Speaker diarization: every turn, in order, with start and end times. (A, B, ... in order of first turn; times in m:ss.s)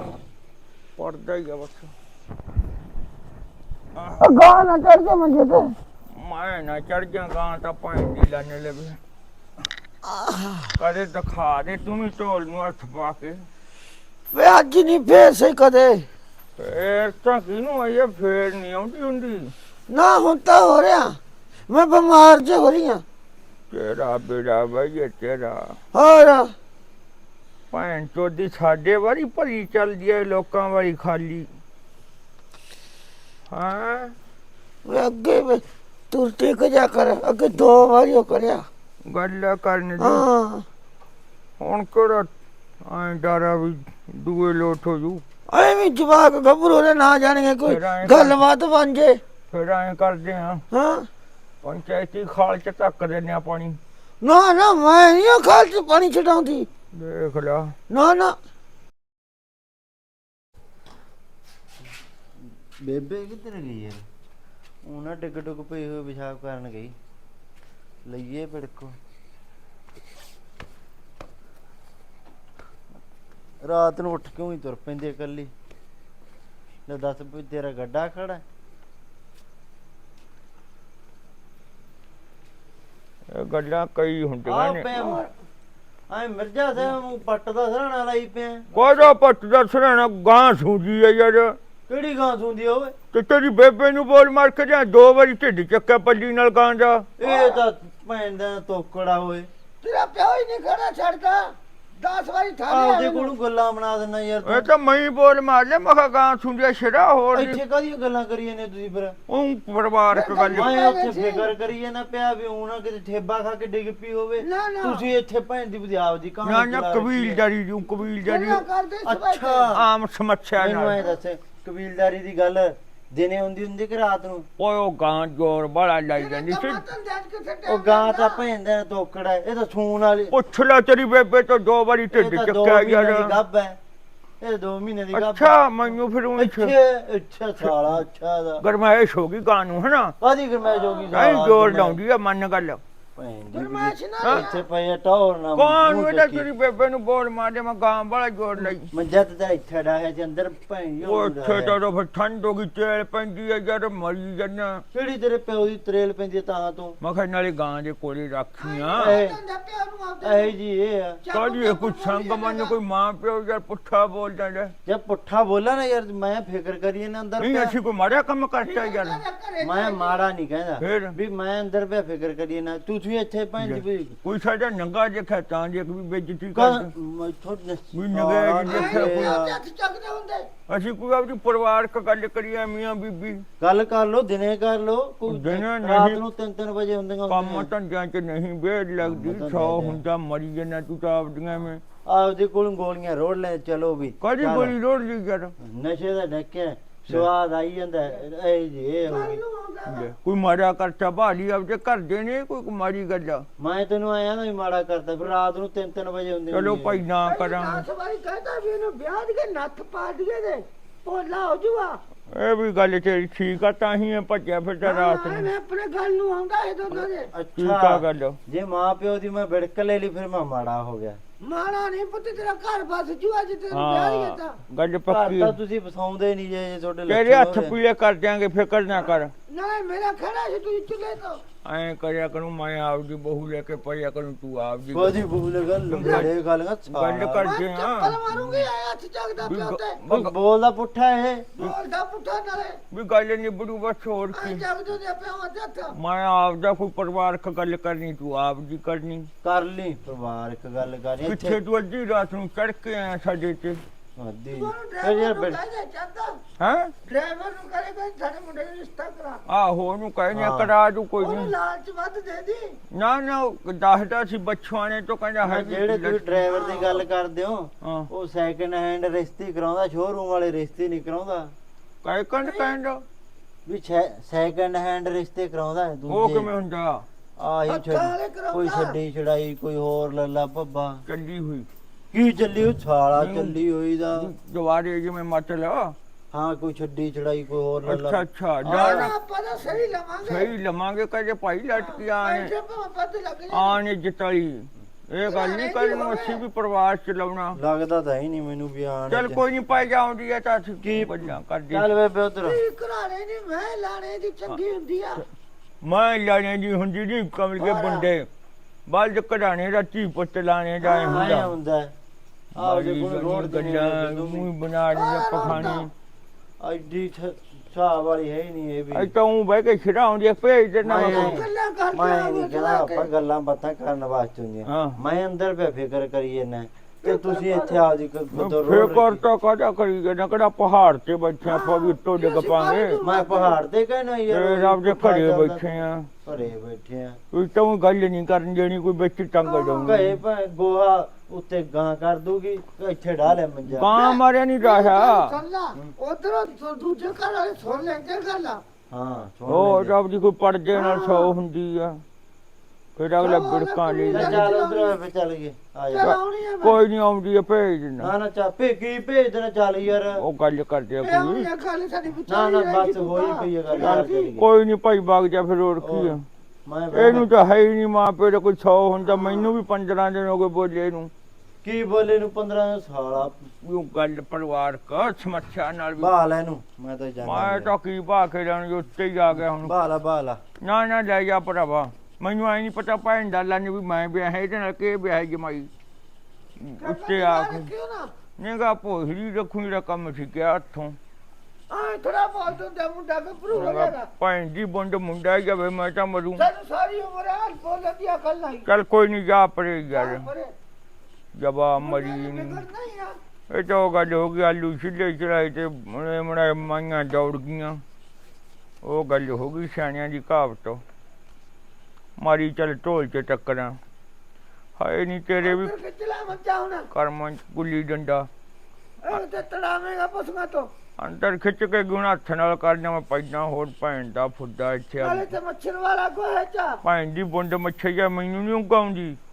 0:01.0-0:01.9 A
0:03.9-0:04.4 A
0:04.2-0:05.7 B
0:06.1-0:09.0 A
0:10.0-0:10.7 B
0:10.8-0:13.4 A
0:14.3-0:16.0 B
0:16.6-0:19.5 A
0:19.9-0:23.0 B
0:23.7-0:25.8 A
0:25.9-0:26.5 B
0:27.7-0:31.5 A
0:33.5-0:34.1 A
0:34.8-0:38.7 B
0:39.0-0:40.2 A
0:40.0-0:40.6 B
0:41.6-0:42.3 A
0:42.8-0:45.2 A
0:45.5-0:49.2 B
0:47.6-0:48.4 A
0:49.5-0:50.6 A
0:50.7-0:51.1 B
0:51.6-0:53.8 A
0:54.2-0:56.7 B
0:56.9-0:57.8 A
0:57.9-0:58.4 B
1:02.8-1:04.0 C
1:04.8-1:07.0 C
1:08.0-1:09.0 C
1:13.6-1:15.5 C
1:16.9-1:18.4 C
1:23.3-1:24.9 A
1:24.4-1:25.2 C
1:24.9-1:25.3 B
1:26.1-1:28.7 C
1:28.7-1:31.6 A
1:31.9-1:32.9 C
1:33.1-1:37.1 A
1:37.2-1:39.5 C
1:37.2-1:37.6 B
1:39.8-1:43.3 B
1:42.7-1:44.7 C
1:44.4-1:47.6 A
1:47.3-1:49.2 C
1:49.3-1:50.7 A
1:50.1-1:51.5 B
1:50.5-1:57.4 C
1:54.4-1:55.0 B
1:56.4-1:58.6 A
1:58.2-1:59.8 B
1:59.0-1:59.9 C
1:59.7-2:01.0 A
2:00.6-2:04.5 C
2:04.6-2:06.8 A
2:06.2-2:08.4 B
2:07.6-2:10.3 C
2:10.3-2:13.4 A
2:12.1-2:13.8 C
2:14.4-2:15.6 C
2:15.1-2:16.7 A
2:16.4-2:18.6 C
2:18.6-2:20.2 A
2:20.2-2:22.0 C
2:20.7-2:21.1 B
2:21.1-2:22.8 A
2:23.2-2:26.5 C
2:23.5-2:24.6 B
2:25.6-2:28.9 A
2:28.9-2:31.8 C
2:31.0-2:34.8 A
2:34.9-2:37.0 C
2:37.0-2:39.2 A
2:38.6-2:40.5 B
2:38.9-2:39.4 C
2:40.2-2:41.2 C
2:41.2-2:42.7 B
2:41.3-2:44.7 A
2:44.8-2:47.7 C
2:47.4-2:49.2 A
2:48.6-2:50.2 B
2:49.6-2:54.2 C
2:50.8-2:51.2 A
2:53.6-2:56.9 A
2:56.5-2:59.6 C
2:57.9-2:59.4 A
2:58.7-3:00.5 B
3:00.7-3:03.4 A
3:03.6-3:07.7 C
3:05.3-3:06.2 A
3:07.3-3:11.8 A
3:09.0-3:10.0 C
3:12.0-3:14.8 C
3:14.2-3:15.5 A
3:15.6-3:19.4 C
3:19.0-3:20.1 B
3:19.9-3:23.5 A
3:23.6-3:27.0 C
3:26.5-3:27.8 A
3:27.2-3:32.0 B
3:32.3-3:35.5 A
3:34.8-3:37.3 B
3:37.3-3:41.2 C
3:37.6-3:38.4 A
3:41.4-3:44.6 B
3:43.7-3:45.5 A
3:45.1-3:47.7 C
3:47.1-3:49.3 A
3:49.1-3:51.4 B
3:51.6-3:55.2 A
3:54.9-3:57.5 C
3:55.9-3:56.3 A
3:56.9-3:58.6 A
3:57.4-4:00.0 B
3:59.4-4:00.3 A
4:00.0-4:01.5 C
4:01.6-4:02.8 B
4:02.9-4:04.6 A
4:04.3-4:05.9 B
4:05.9-4:09.3 A
4:09.4-4:11.6 C
4:11.2-4:13.8 A
4:14.2-4:15.6 C
4:14.5-4:16.4 B
4:16.6-4:16.9 A
4:17.0-4:19.4 B
4:19.5-4:21.5 A
4:20.3-4:20.7 C
4:21.2-4:22.8 B
4:22.9-4:26.3 A
4:25.4-4:31.5 C
4:26.5-4:27.0 B
4:27.8-4:28.1 A
4:32.0-4:33.0 A
4:32.4-4:32.7 B
4:33.6-4:36.5 C
4:36.1-4:37.0 A
4:37.4-4:41.0 C
4:37.7-4:39.0 B
4:41.1-4:41.7 A
4:42.1-4:44.3 C
4:43.2-4:43.6 A
4:44.1-4:46.0 A
4:46.3-4:49.1 C
4:47.8-4:49.1 A
4:48.6-4:50.5 B
4:50.2-4:52.5 A
4:51.7-4:53.8 B
4:53.5-4:57.6 A
4:55.2-4:56.4 B
4:57.5-4:59.4 C
4:59.1-5:01.9 A
5:00.8-5:02.6 C
5:02.4-5:05.2 B
5:05.8-5:08.3 A
5:07.6-5:08.1 B
5:08.9-5:11.5 A
5:10.8-5:11.9 C
5:12.6-5:14.5 C
5:12.6-5:15.9 A
5:14.9-5:15.9 B
5:15.4-5:15.8 C
5:16.6-5:19.1 C
5:18.9-5:21.4 A
5:20.8-5:29.2 C
5:20.9-5:23.1 B
5:24.7-5:25.0 A
5:27.0-5:27.8 B
5:28.3-5:33.0 A
5:31.4-5:33.6 B
5:33.0-5:37.2 C
5:34.3-5:36.1 A
5:37.3-5:40.2 A
5:39.4-5:40.0 B
5:39.8-5:44.0 C
5:43.7-5:45.3 A
5:43.9-5:48.6 B
5:48.9-5:49.9 C
5:49.5-5:52.0 A
5:50.7-5:51.3 B
5:53.0-5:54.5 A
5:53.2-5:55.0 B
5:54.1-5:56.1 C
5:55.9-5:56.8 B
5:56.0-5:58.1 A
5:58.0-6:00.2 C
6:00.2-6:01.5 A
6:01.0-6:04.3 B
6:02.3-6:04.5 C
6:03.8-6:06.2 A
6:05.8-6:07.3 C
6:06.9-6:11.1 A
6:11.6-6:13.5 C
6:13.6-6:16.1 A
6:16.0-6:17.7 C
6:17.2-6:19.7 A
6:19.6-6:20.4 C
6:20.6-6:25.7 A
6:26.6-6:27.7 A
6:26.8-6:28.1 B
6:28.4-6:31.0 A
6:31.7-6:34.1 B
6:33.5-6:36.4 A
6:36.4-6:38.7 B
6:38.6-6:40.3 A
6:39.9-6:40.5 B
6:41.4-6:42.6 A
6:41.8-6:43.2 B
6:43.5-6:47.8 A
6:48.8-6:50.8 A
6:52.2-6:53.8 A
6:54.8-6:55.7 A
6:55.4-6:56.9 B
6:56.9-6:58.3 A
6:59.0-7:00.7 B
7:01.0-7:05.3 A
7:05.0-7:06.8 B
7:06.8-7:09.2 A